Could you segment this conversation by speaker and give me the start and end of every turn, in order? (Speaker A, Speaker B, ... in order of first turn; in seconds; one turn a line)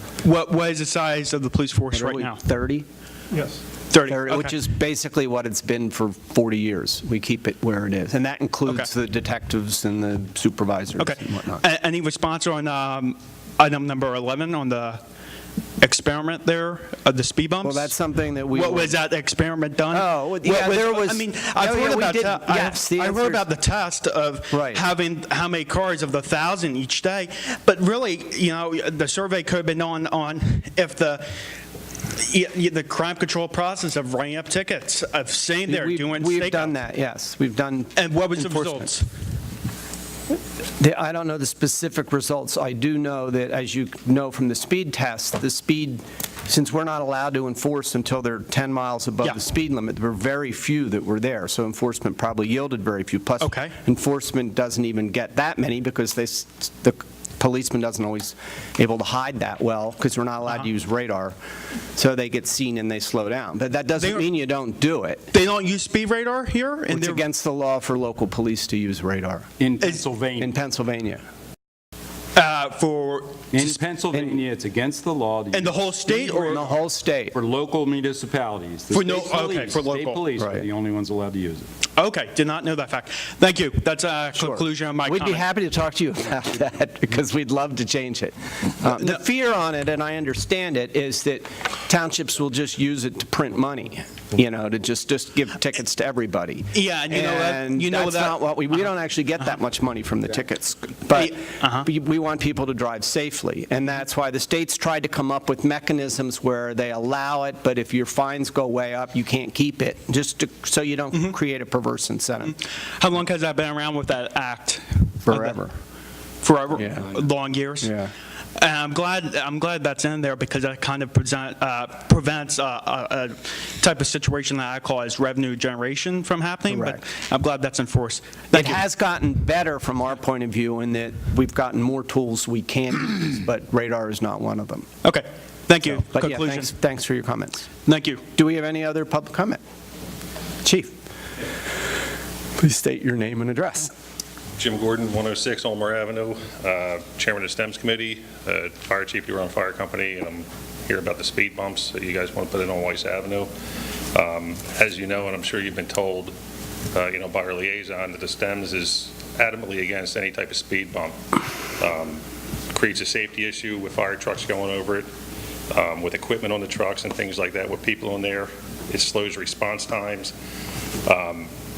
Speaker A: 0.2-2.4
Speaker B: 1.9-2.9
Speaker A: 3.4-4.5
Speaker B: 4.1-11.6
Speaker A: 11.0-15.0
Speaker A: 15.8-17.9
Speaker B: 17.6-19.0
Speaker A: 18.5-31.4
Speaker B: 19.9-23.5
Speaker B: 24.5-24.8
Speaker A: 32.1-36.8
Speaker B: 35.7-38.8
Speaker A: 38.0-39.1
Speaker B: 40.8-61.4
Speaker A: 53.4-53.8
Speaker B: 61.9-65.3
Speaker A: 64.0-64.3
Speaker A: 65.3-67.2
Speaker B: 66.9-69.5
Speaker C: 69.6-70.5
Speaker B: 70.4-71.2
Speaker A: 72.3-73.8
Speaker C: 73.5-75.8
Speaker B: 74.1-74.4
Speaker A: 75.5-76.7
Speaker B: 76.1-77.4
Speaker C: 77.3-81.7
Speaker A: 78.9-80.3
Speaker B: 80.4-80.7
Speaker A: 82.0-85.5
Speaker B: 84.3-112.5
Speaker A: 96.7-98.9
Speaker A: 101.2-101.9
Speaker A: 112.5-115.6
Speaker B: 115.3-115.7
Speaker A: 116.4-118.0
Speaker B: 116.8-117.0
Speaker B: 117.8-118.1
Speaker A: 118.6-128.8
Speaker B: 126.7-127.0
Speaker B: 128.5-134.9
Speaker A: 135.0-136.7
Speaker B: 136.0-137.7
Speaker A: 137.9-138.2
Speaker B: 138.3-139.6
Speaker B: 140.6-141.0
Speaker B: 142.6-143.9
Speaker D: 144.6-153.5
Speaker D: 154.1-156.3
Speaker D: 156.9-165.1
Speaker D: 165.7-170.3
Speaker D: 171.1-171.5